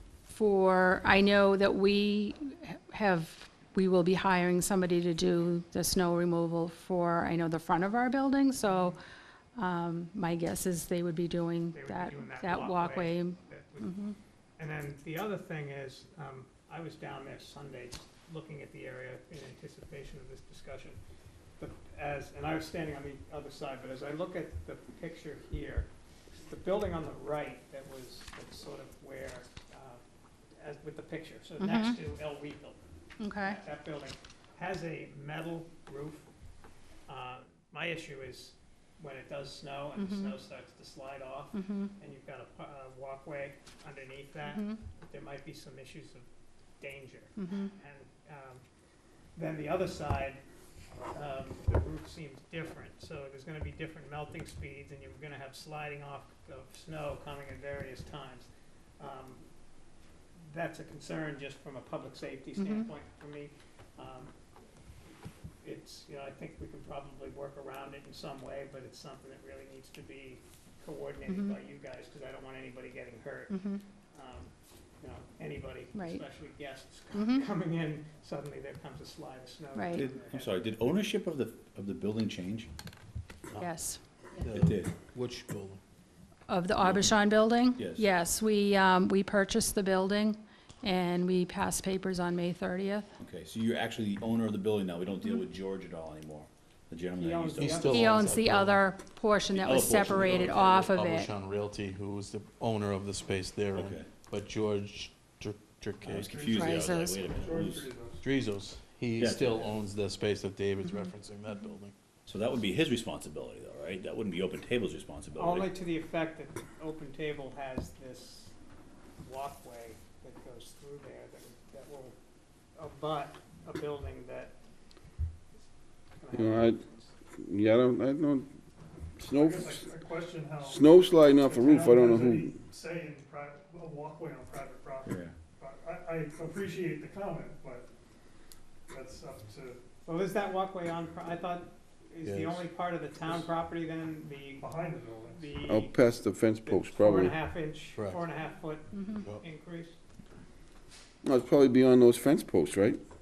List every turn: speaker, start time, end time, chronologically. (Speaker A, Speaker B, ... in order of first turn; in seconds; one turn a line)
Speaker A: 0.3-9.0
Speaker B: 8.7-8.9
Speaker A: 9.5-14.2
Speaker B: 11.7-13.9
Speaker B: 14.6-21.0
Speaker B: 21.6-30.0
Speaker B: 30.6-32.8
Speaker A: 31.6-32.0
Speaker A: 33.2-33.6
Speaker B: 33.4-36.3
Speaker B: 37.1-46.3
Speaker A: 40.0-40.4
Speaker A: 41.5-41.9
Speaker A: 44.4-44.8
Speaker B: 46.8-48.6
Speaker A: 47.4-47.7
Speaker B: 49.4-50.4
Speaker B: 51.1-59.4
Speaker B: 60.5-64.3
Speaker A: 62.6-62.9
Speaker B: 65.6-73.6
Speaker A: 71.3-71.6
Speaker A: 73.5-73.8
Speaker B: 74.1-80.5
Speaker A: 75.9-76.2
Speaker A: 77.1-77.5
Speaker A: 79.7-80.0
Speaker C: 79.9-82.7
Speaker A: 83.6-84.0
Speaker D: 84.4-85.8
Speaker C: 84.5-84.9
Speaker A: 86.5-93.1
Speaker C: 86.8-87.2
Speaker C: 87.7-88.1
Speaker C: 93.2-98.0
Speaker B: 97.2-98.3
Speaker D: 97.6-98.9
Speaker A: 97.9-101.3
Speaker C: 99.5-100.8
Speaker B: 100.0-100.6
Speaker D: 100.7-106.3
Speaker C: 103.7-104.1
Speaker C: 106.0-107.9
Speaker E: 106.2-106.7
Speaker A: 106.4-107.3
Speaker E: 107.3-108.2
Speaker D: 108.2-111.9
Speaker C: 109.2-109.7
Speaker A: 110.9-111.7
Speaker C: 112.2-115.7
Speaker B: 115.3-118.5
Speaker B: 119.2-122.2
Speaker B: 122.8-124.5
Speaker B: 126.2-127.1
Speaker F: 126.3-126.8
Speaker F: 127.4-128.5
Speaker F: 129.2-129.9
Speaker E: 129.3-137.9
Speaker F: 130.6-132.6
Speaker C: 135.0-135.3
Speaker E: 138.9-139.8
Speaker B: 140.0-150.0
Speaker D: 142.2-142.6
Speaker E: 143.2-143.5
Speaker E: 144.6-145.5
Speaker F: 145.6-147.4
Speaker D: 147.9-148.2
Speaker A: 148.9-149.2
Speaker F: 151.2-153.0